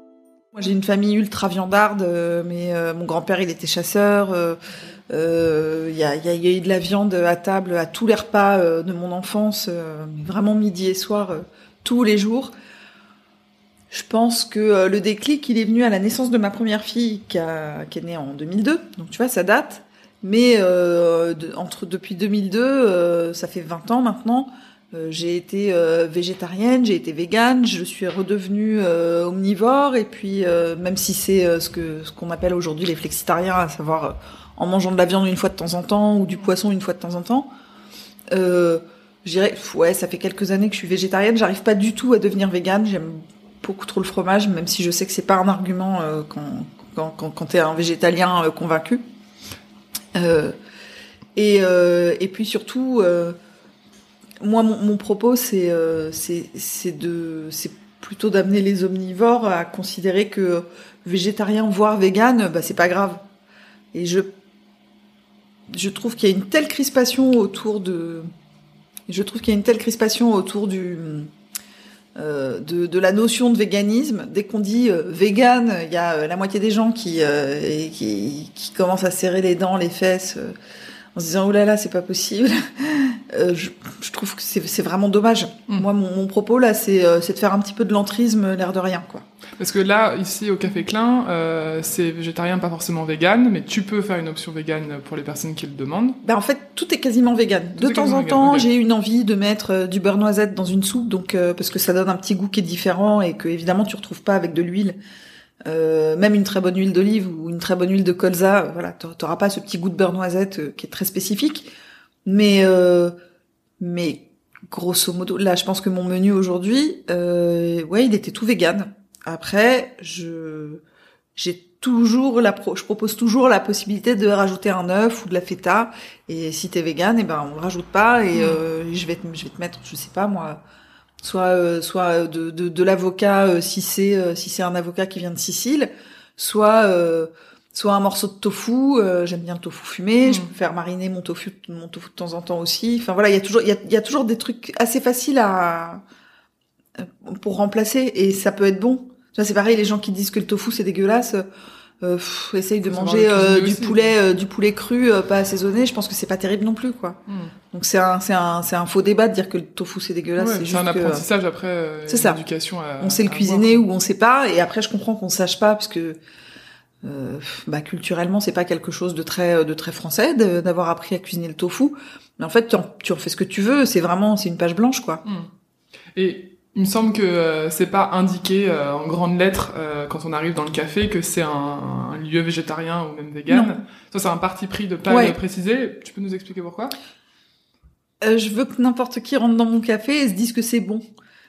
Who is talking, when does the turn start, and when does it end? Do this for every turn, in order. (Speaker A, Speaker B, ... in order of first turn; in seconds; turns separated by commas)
Speaker A: 0.5-4.6, Speaker A: 5.1-12.5, Speaker A: 13.9-37.5, Speaker A: 38.3-49.0, Speaker A: 50.1-50.5, Speaker A: 51.4-53.4, Speaker A: 54.4-63.2, Speaker A: 63.9-64.3, Speaker A: 65.7-68.3, Speaker A: 69.1-71.3, Speaker A: 72.2-80.5, Speaker A: 81.1-89.2, Speaker B: 89.6-96.2, Speaker A: 96.2-105.0, Speaker B: 97.8-98.7, Speaker A: 105.7-111.7, Speaker A: 112.2-113.1, Speaker A: 113.8-120.8, Speaker A: 121.3-130.6, Speaker B: 128.3-128.6, Speaker A: 131.2-146.0, Speaker B: 140.2-140.5, Speaker A: 147.0-151.5, Speaker A: 152.0-157.2, Speaker B: 152.8-154.1, Speaker B: 157.3-157.5, Speaker A: 157.7-161.2, Speaker B: 160.4-163.8, Speaker A: 162.1-162.4, Speaker A: 163.0-166.2, Speaker A: 167.0-175.2, Speaker B: 176.1-186.9, Speaker A: 183.5-183.8, Speaker A: 185.1-185.3, Speaker A: 188.2-191.0